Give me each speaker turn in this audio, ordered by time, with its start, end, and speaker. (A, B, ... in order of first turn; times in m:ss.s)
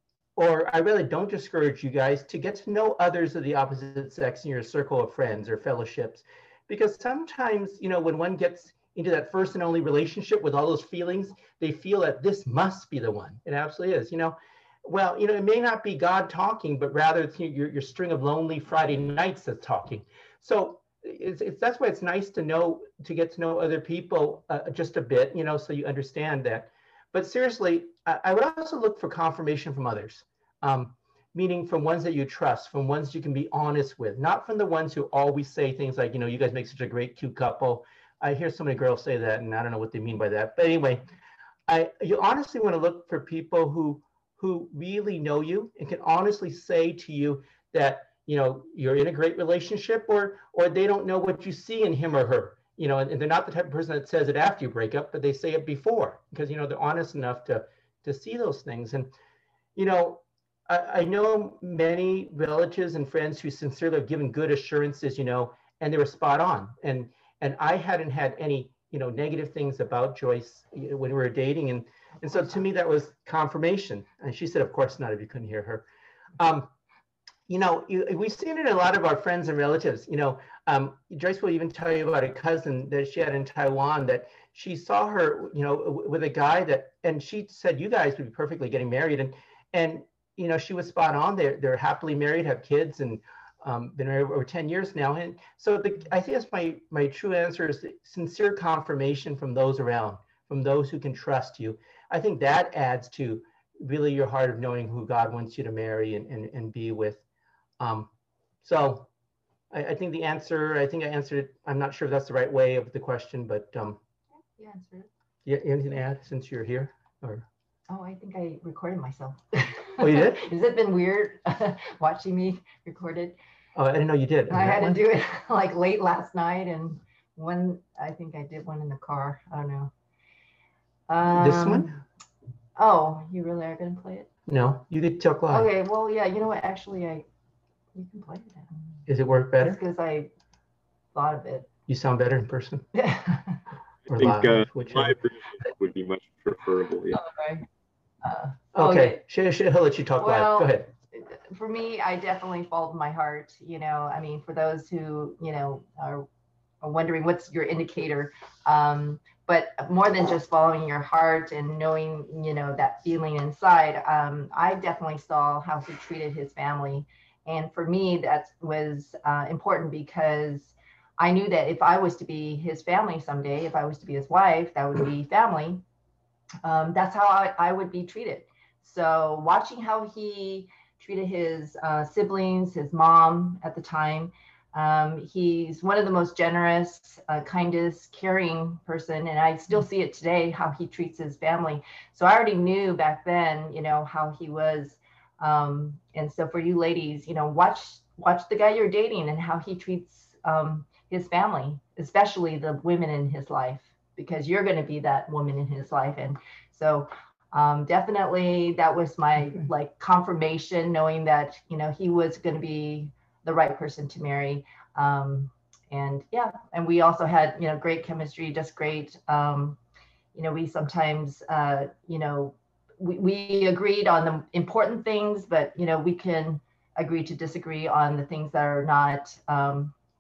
0:00.4-0:41.1 A
0:41.7-0:59.1 A
0:59.8-1:15.9 A
1:16.4-1:16.7 A
1:17.5-1:47.2 A
1:47.8-1:48.1 A
1:48.6-1:49.1 A
1:49.7-1:54.0 A
1:54.6-1:55.1 B
1:55.5-1:57.5 A
1:57.9-2:03.4 B
2:00.0-2:00.5 A
2:03.8-2:05.0 A
2:04.5-2:09.9 B
2:11.1-2:12.0 B
2:11.3-2:11.9 A
2:12.8-2:14.3 B
2:14.5-2:15.7 A
2:15.5-2:17.3 B
2:17.9-2:19.0 B
2:19.1-2:19.8 A
2:19.6-2:20.3 B
2:21.1-2:21.7 B
2:21.9-2:22.8 A
2:22.9-2:23.6 B
2:24.1-2:27.2 C
2:24.1-2:25.2 A
2:27.1-2:27.7 B
2:28.2-2:29.2 B
2:28.8-2:30.9 A
2:30.2-2:36.3 B
2:36.8-2:55.8 B
2:56.6-3:39.8 B
3:40.4-3:49.9 B